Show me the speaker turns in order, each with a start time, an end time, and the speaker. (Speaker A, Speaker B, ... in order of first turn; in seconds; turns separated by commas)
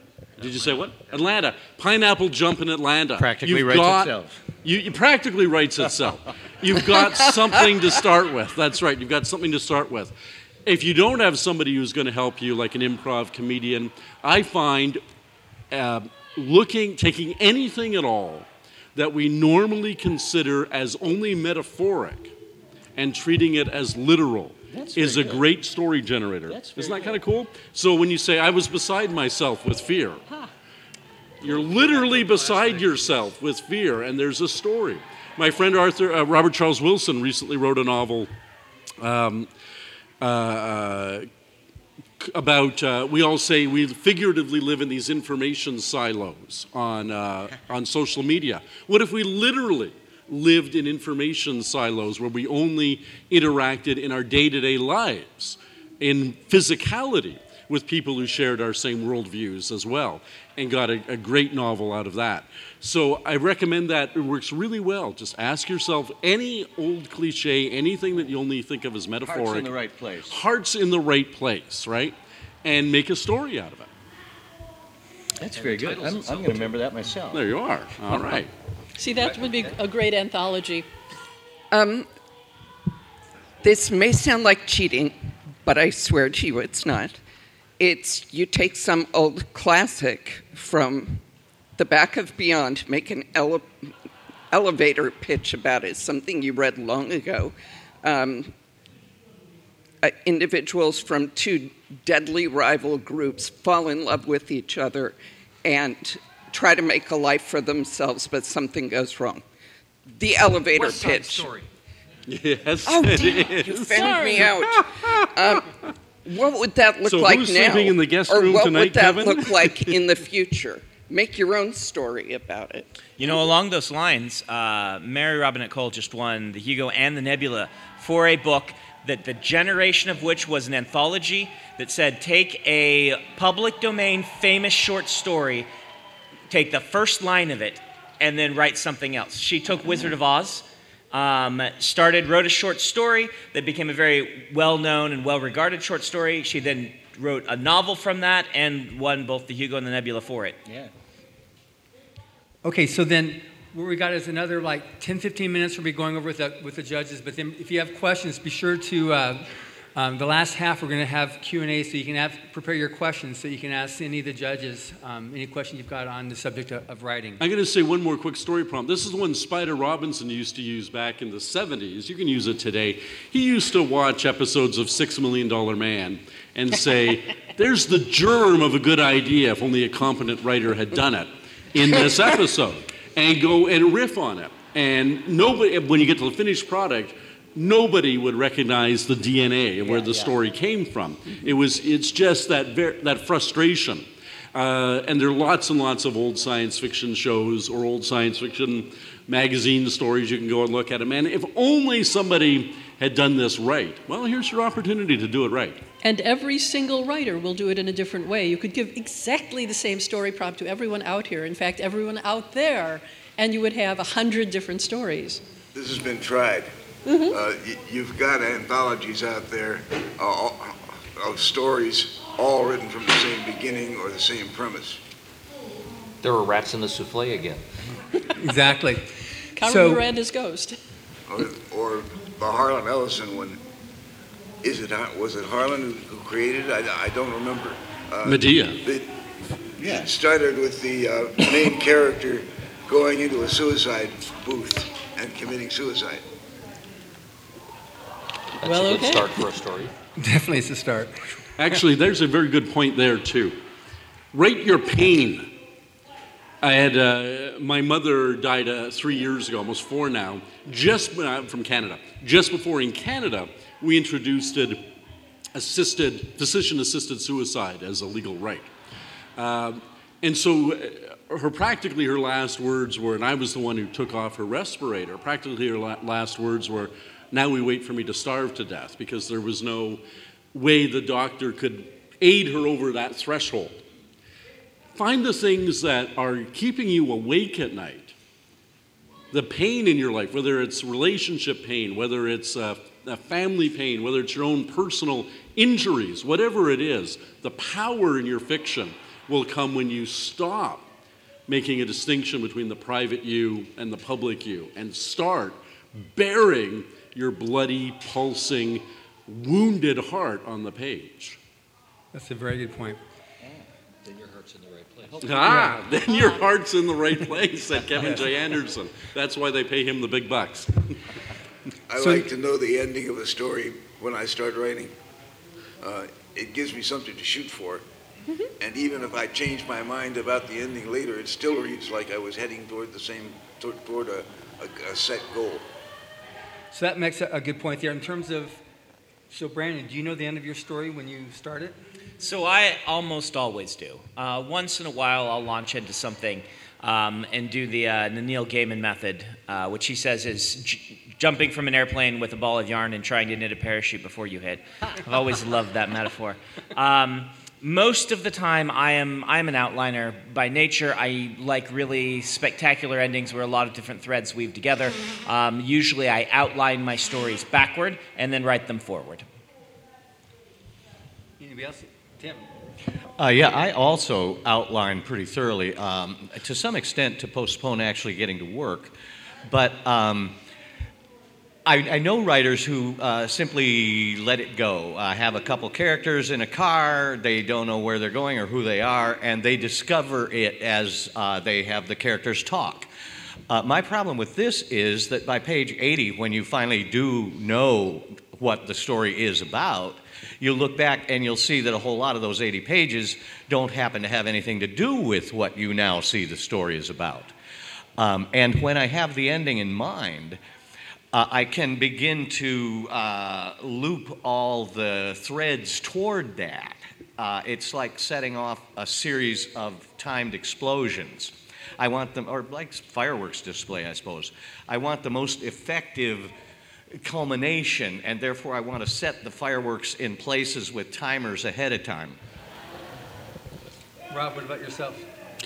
Speaker A: 0.4-10.1, Speaker B: 3.2-4.4, Speaker A: 10.7-15.0, Speaker A: 15.7-22.3, Speaker A: 22.9-30.2, Speaker B: 24.7-25.4, Speaker B: 26.5-27.1, Speaker A: 31.4-38.3, Speaker A: 39.0-39.5, Speaker A: 40.2-41.3, Speaker A: 42.2-69.8, Speaker B: 69.2-70.3, Speaker A: 70.3-73.9, Speaker B: 75.4-77.5, Speaker A: 77.3-78.5, Speaker C: 79.0-80.9, Speaker D: 79.2-79.7, Speaker E: 81.7-82.1, Speaker E: 83.6-87.2, Speaker E: 87.8-91.2, Speaker E: 91.8-93.9, Speaker E: 94.5-98.5, Speaker E: 100.0-109.4, Speaker E: 110.1-111.5, Speaker F: 110.7-111.7, Speaker A: 112.3-115.6, Speaker E: 112.8-115.7, Speaker C: 113.9-114.5, Speaker E: 116.2-123.4, Speaker A: 117.0-120.0, Speaker G: 123.2-135.7, Speaker G: 136.5-150.6, Speaker D: 152.6-167.4, Speaker A: 167.4-205.8, Speaker C: 206.0-215.4, Speaker H: 215.7-216.7, Speaker C: 217.1-217.3, Speaker H: 217.3-225.0, Speaker F: 226.2-227.6, Speaker D: 228.4-230.0, Speaker C: 229.6-230.8, Speaker H: 231.3-233.6, Speaker H: 234.6-239.1, Speaker A: 238.2-238.8, Speaker H: 239.8-246.2, Speaker F: 248.6-249.9, Speaker C: 248.6-249.3, Speaker D: 250.2-251.8, Speaker A: 251.6-253.6, Speaker A: 254.3-255.5, Speaker A: 256.6-264.8, Speaker A: 265.5-268.7, Speaker A: 269.4-280.0, Speaker A: 280.5-283.8, Speaker A: 284.9-288.1, Speaker A: 289.3-300.9, Speaker A: 301.5-311.4, Speaker D: 312.1-313.0, Speaker F: 314.1-315.2, Speaker A: 315.2-321.0, Speaker B: 315.2-315.5, Speaker D: 315.4-315.8, Speaker H: 321.9-324.9, Speaker D: 322.0-322.3, Speaker H: 325.8-327.8, Speaker H: 328.6-335.6, Speaker D: 336.7-338.6, Speaker D: 339.3-341.8, Speaker G: 342.2-369.2, Speaker D: 371.4-372.5, Speaker B: 373.2-378.9, Speaker B: 379.5-380.4, Speaker B: 381.6-392.9, Speaker B: 393.5-407.3, Speaker B: 408.0-410.4, Speaker B: 411.1-426.3, Speaker B: 426.9-432.2, Speaker D: 434.1-435.0